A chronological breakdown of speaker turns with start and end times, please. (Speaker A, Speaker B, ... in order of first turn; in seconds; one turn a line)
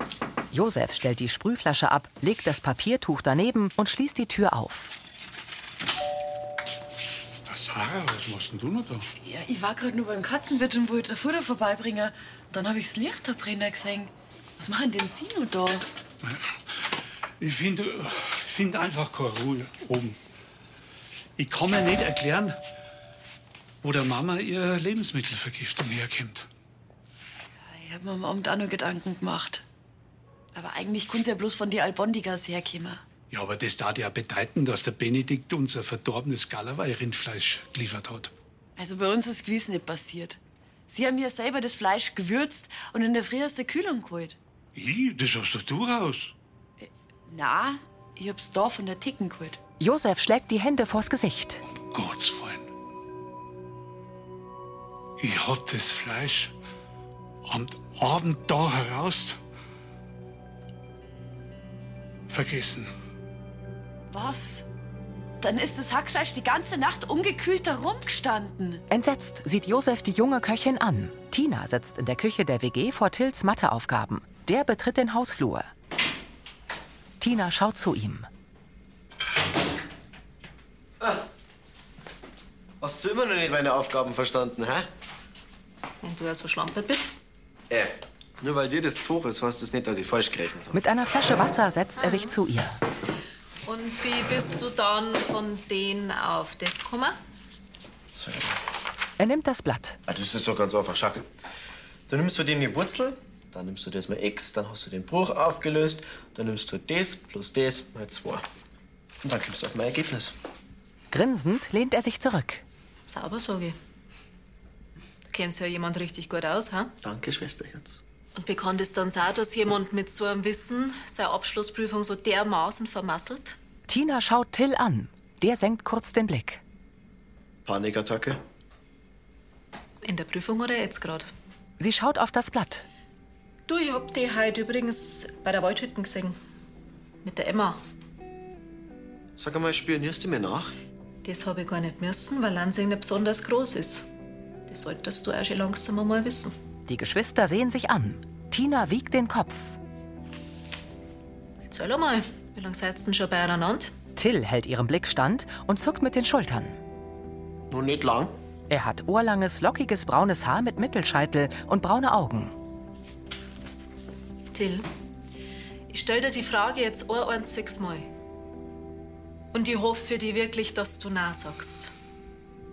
Speaker A: 0.5-4.9
Speaker B: 7.5-9.1
Speaker C: 9.2-15.9
Speaker B: 16.2-20.2
Speaker B: 21.4-22.6
Speaker B: 23.8-26.5
Speaker C: 27.6-29.6
Speaker C: 30.5-33.0
Speaker B: 33.3-38.3
Speaker C: 38.8-40.4
Speaker C: 40.9-44.4
Speaker B: 44.8-46.3
Speaker C: 46.8-49.6
Speaker A: 49.8-51.6
Speaker B: 51.7-52.7
Speaker B: 55.2-56.5
Speaker B: 57.5-59.4
Speaker B: 62.3-62.9
Speaker C: 64.1-64.7
Speaker C: 65.4-68.8
Speaker A: 68.9-75.7
Speaker A: 77.2-78.3
Speaker D: 82.8-84.9
Speaker E: 86.0-87.2
Speaker D: 87.7-90.8
Speaker A: 90.7-92.8
Speaker E: 93.7-97.2
Speaker D: 98.2-98.5
Speaker A: 99.2-100.0
Speaker D: 100.1-101.2
Speaker D: 102.1-108.4
Speaker D: 109.2-110.3
Speaker A: 111.1-112.6
Speaker E: 113.1-113.8
Speaker E: 115.3-116.9
Speaker D: 117.0-118.0
Speaker E: 118.4-123.6
Speaker A: 123.9-126.6
Speaker D: 127.7-128.4
Speaker E: 130.0-131.3
Speaker A: 131.8-132.9
Speaker E: 133.7-136.4
Speaker E: 137.2-137.8
Speaker D: 139.4-140.7
Speaker E: 141.2-144.1
Speaker E: 144.7-146.6
Speaker A: 146.9-149.8
Speaker E: 151.7-153.9
Speaker A: 154.2-156.8
Speaker D: 157.7-158.3
Speaker A: 158.7-162.5
Speaker E: 164.5-164.9
Speaker E: 165.9-168.1
Speaker E: 169.5-171.9